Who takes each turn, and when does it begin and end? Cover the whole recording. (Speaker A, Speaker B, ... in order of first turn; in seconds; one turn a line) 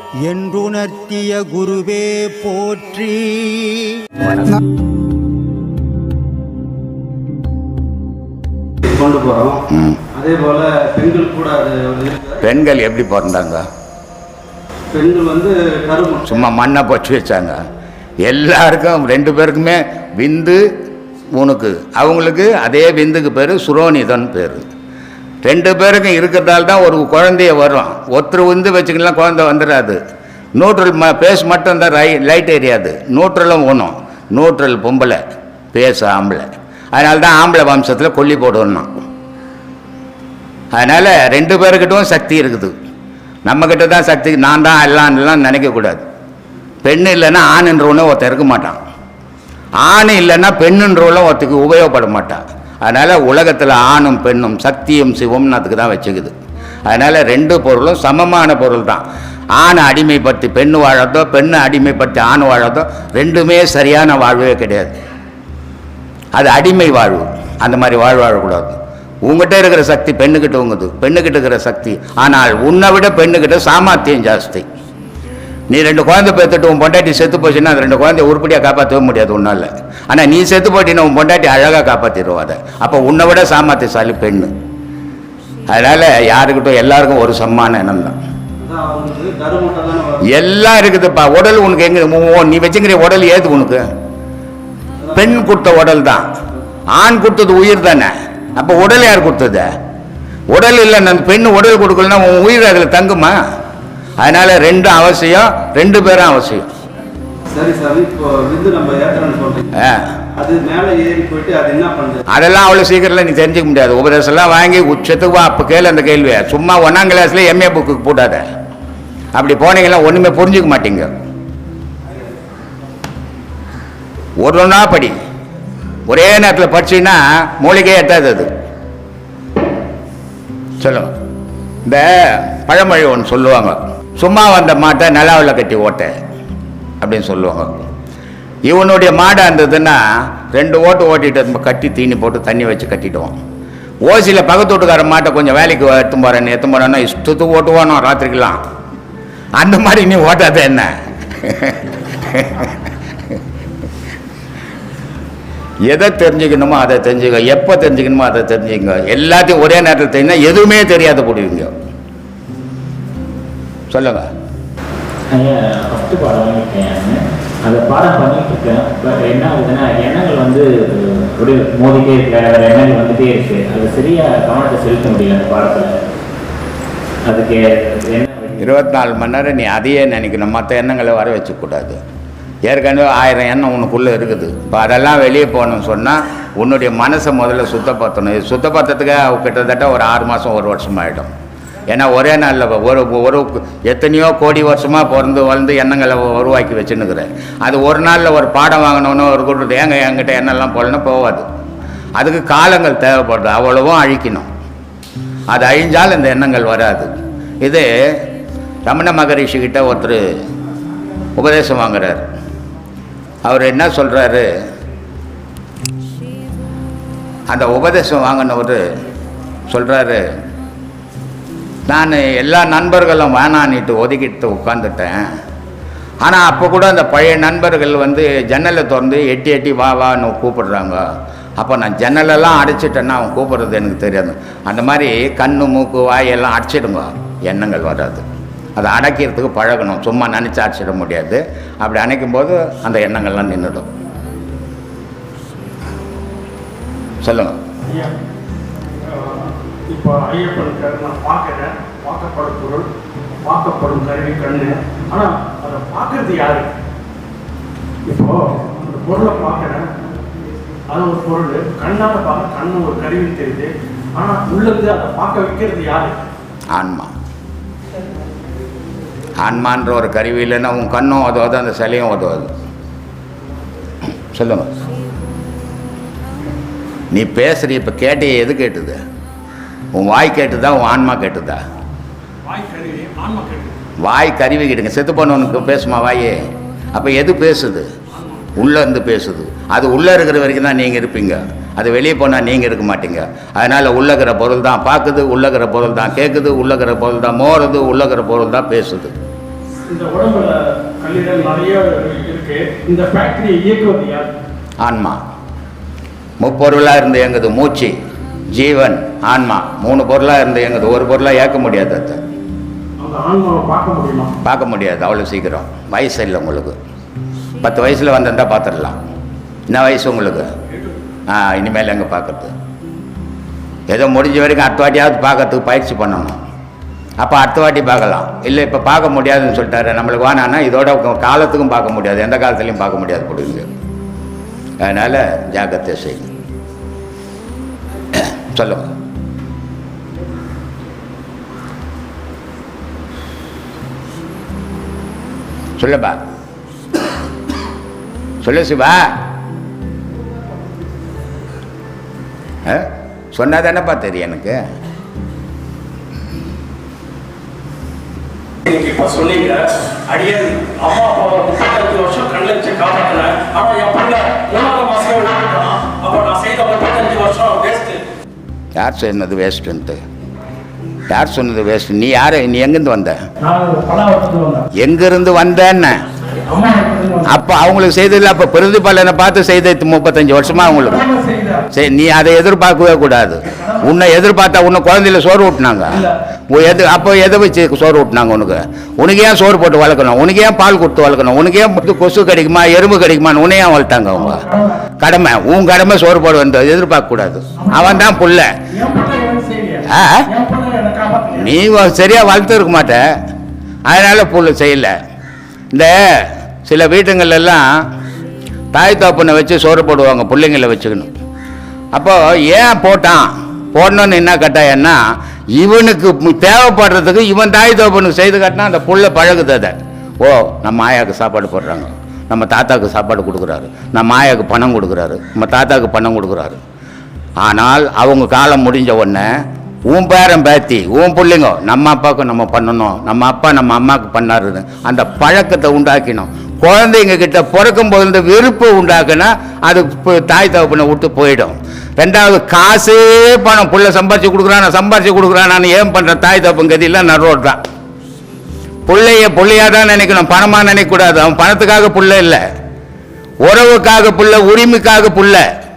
Speaker A: 0.2-3.9
Speaker B: 8.9-9.6
Speaker C: 9.7-10.0
Speaker B: 10.1-12.4
Speaker C: 12.4-13.6
Speaker B: 14.9-16.5
Speaker C: 16.2-17.6
Speaker C: 18.2-20.6
Speaker C: 21.4-24.6
Speaker C: 25.4-30.0
Speaker C: 30.6-35.2
Speaker C: 35.7-38.9
Speaker C: 40.7-42.7
Speaker C: 43.5-46.0
Speaker C: 46.8-48.8
Speaker C: 49.8-56.3
Speaker C: 56.9-59.0
Speaker C: 59.6-64.9
Speaker C: 66.3-74.6
Speaker C: 75.7-84.5
Speaker C: 85.7-88.2
Speaker B: 88.6-90.2
Speaker C: 90.3-93.8
Speaker B: 95.0-95.5
Speaker C: 95.1-96.3
Speaker C: 96.9-99.7
Speaker C: 100.5-103.4
Speaker C: 104.2-106.7
Speaker B: 107.5-109.7
Speaker C: 109.8-110.1
Speaker B: 110.4-112.2
Speaker C: 112.3-118.4
Speaker C: 119.3-121.1
Speaker C: 124.4-125.1
Speaker C: 126.1-128.5
Speaker C: 130.8-131.1
Speaker C: 131.8-136.1
Speaker C: 137.0-137.8
Speaker C: 138.7-140.0
Speaker C: 140.5-143.3
Speaker C: 144.0-148.6
Speaker C: 149.6-152.8
Speaker C: 155.9-161.7
Speaker C: 163.9-164.2
Speaker D: 165.3-175.9
Speaker D: 177.3-178.6
Speaker C: 178.6-182.0
Speaker C: 182.7-191.3
Speaker C: 191.9-201.4
Speaker C: 202.2-204.5
Speaker C: 205.5-207.1
Speaker C: 207.6-207.9
Speaker C: 208.9-210.2
Speaker C: 211.3-212.2
Speaker C: 213.4-214.4
Speaker C: 217.5-218.8
Speaker C: 219.7-220.2
Speaker C: 221.9-225.2
Speaker C: 226.2-231.0
Speaker C: 231.6-238.2
Speaker C: 238.8-243.9
Speaker C: 247.2-247.6
Speaker E: 249.1-252.9
Speaker E: 253.4-256.7
Speaker E: 258.1-259.9
Speaker E: 260.9-266.1
Speaker C: 266.7-267.1
Speaker C: 269.4-272.5
Speaker C: 274.3-274.7
Speaker C: 277.1-279.0
Speaker C: 279.9-281.6
Speaker E: 282.4-283.7
Speaker C: 284.0-286.4
Speaker C: 286.9-287.9
Speaker C: 288.6-299.1
Speaker E: 299.9-304.4
Speaker C: 304.8-305.2
Speaker C: 306.4-307.9
Speaker C: 308.5-312.2
Speaker E: 313.0-314.3
Speaker C: 314.4-316.8
Speaker C: 317.6-319.0
Speaker C: 319.7-320.5
Speaker C: 321.3-322.5
Speaker C: 323.9-326.4
Speaker C: 327.2-333.7
Speaker C: 334.8-336.3
Speaker C: 338.1-338.9
Speaker C: 345.8-346.2
Speaker C: 348.4-349.1
Speaker C: 352.6-354.6
Speaker E: 358.6-368.0
Speaker C: 368.8-370.0
Speaker C: 371.1-373.2
Speaker E: 373.4-374.7
Speaker C: 374.7-376.0
Speaker E: 376.5-377.4
Speaker C: 377.2-381.0
Speaker E: 380.6-381.6
Speaker C: 381.7-394.4
Speaker E: 383.5-383.9
Speaker E: 394.2-394.8
Speaker C: 395.0-398.5
Speaker E: 397.6-398.1
Speaker E: 398.7-401.5
Speaker C: 399.9-400.2
Speaker C: 401.3-403.0
Speaker C: 403.9-404.9
Speaker C: 405.7-407.6
Speaker C: 408.7-411.1
Speaker C: 411.9-415.0
Speaker C: 415.6-426.6
Speaker C: 427.4-429.3
Speaker C: 429.9-447.6
Speaker C: 448.9-452.4
Speaker C: 453.4-455.4